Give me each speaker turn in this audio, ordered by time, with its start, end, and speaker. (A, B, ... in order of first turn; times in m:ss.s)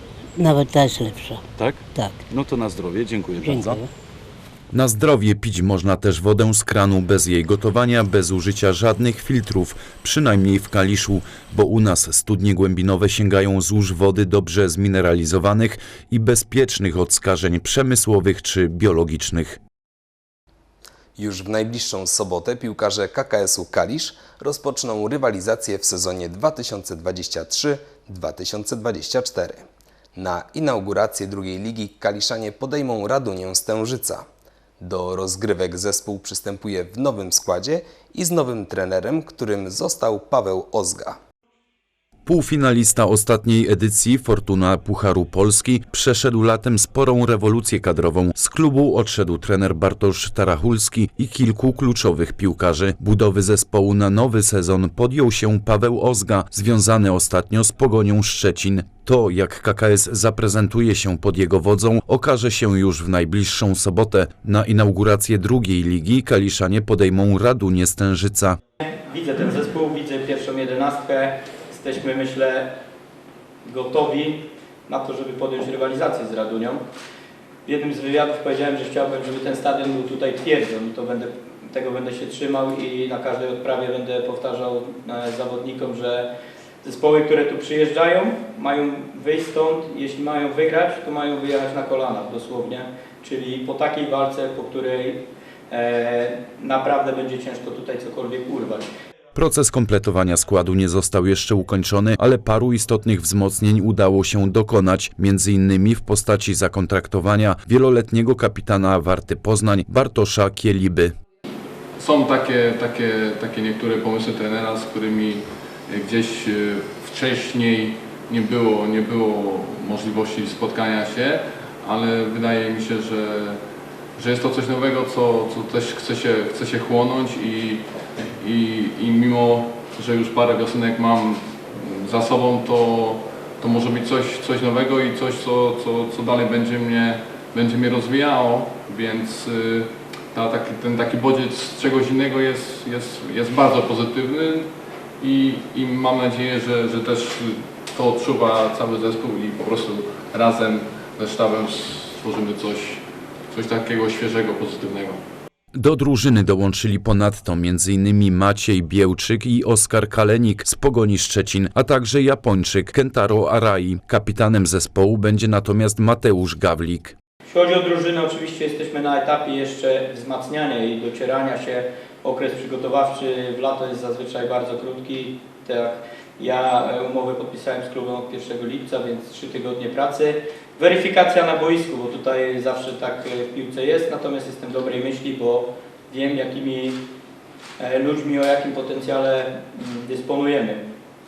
0:00.4-0:02.2 A
0:01.6-0:03.8 B
0:03.4-0:03.8 A
0:04.7-0:19.6 C
0:21.2-0:29.6 D
0:30.1-0:34.2 D
0:34.8-0:41.2 D
0:42.2-1:08.6 C
1:08.8-1:12.7 E
1:13.6-1:16.8 E
1:17.6-1:26.3 E
1:26.8-1:38.9 E
1:39.3-1:51.1 C
1:52.0-2:03.6 F
2:04.2-2:07.8 F
2:08.4-2:35.2 F
2:35.7-2:47.1 C
2:47.5-3:07.0 E
3:07.8-3:10.8 E